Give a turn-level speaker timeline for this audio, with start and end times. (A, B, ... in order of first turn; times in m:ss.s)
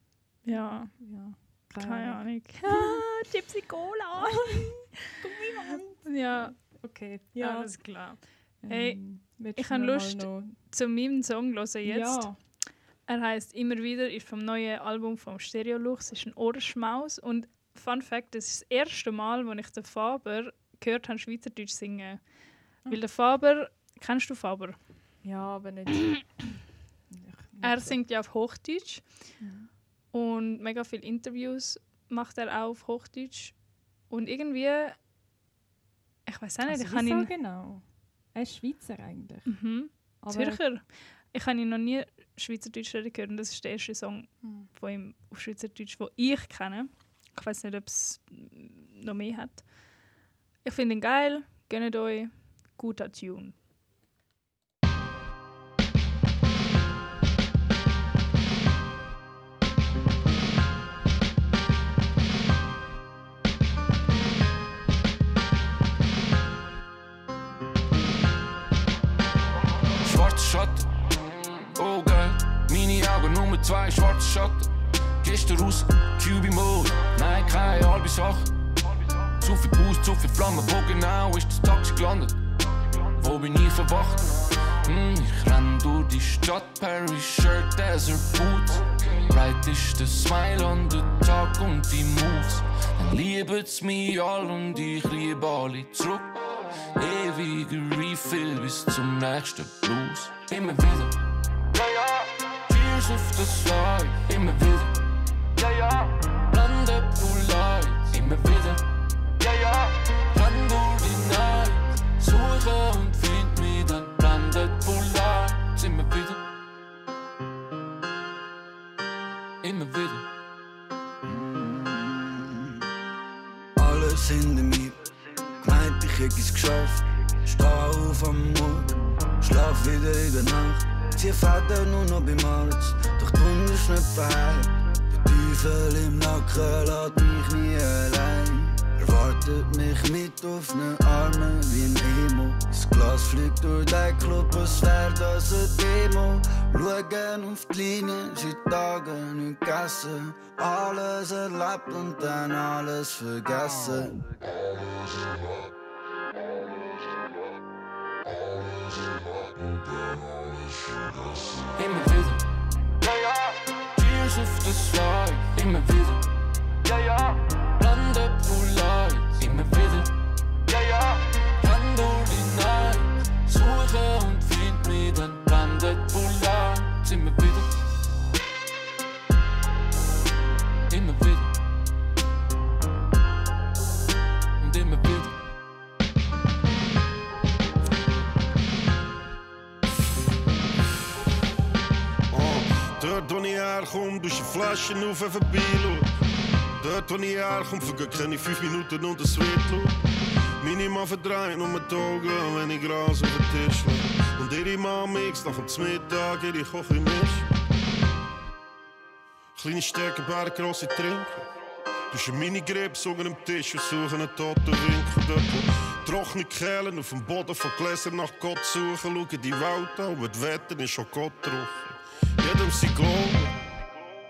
0:00.4-0:00.9 A
0:00.5-0:03.1 B
0:01.8-0:05.2 A
0:04.2-0:07.7 B
0:06.0-0:06.6 A
0:07.4-0:09.0 A
0:08.6-0:10.6 B
0:09.6-0:12.3 A
0:11.8-0:12.4 B
0:13.1-0:22.2 A
0:22.8-0:24.8 A
0:25.2-0:26.4 B
0:27.1-0:28.0 B
0:27.6-0:29.0 A
0:29.4-0:29.7 B
0:30.1-0:33.6 A
0:34.1-0:35.0 A
0:36.3-0:37.3 A
0:36.7-0:39.5 B
0:39.5-0:49.6 A
0:40.2-0:40.6 B
0:44.4-0:44.7 B
0:50.6-0:53.6 A
1:10.0-1:10.9 C
1:11.7-1:14.7 C
1:15.2-1:18.5 C
1:19.4-1:22.4 C
1:23.2-1:36.4 C
1:37.0-1:41.2 C
1:41.7-1:45.0 C
1:45.6-1:48.8 C
1:49.4-1:56.4 C
1:59.6-2:00.3 C
2:03.8-2:34.3 D
2:41.7-2:42.5 C
2:43.0-2:46.3 C
2:46.9-2:50.1 C
2:50.7-2:57.7 C
3:00.9-3:01.6 C
3:04.6-3:05.4 C
3:12.3-3:16.1 E
3:16.8-3:20.0 E
3:20.6-3:27.5 E
3:29.6-3:31.5 E
3:32.1-3:43.6 E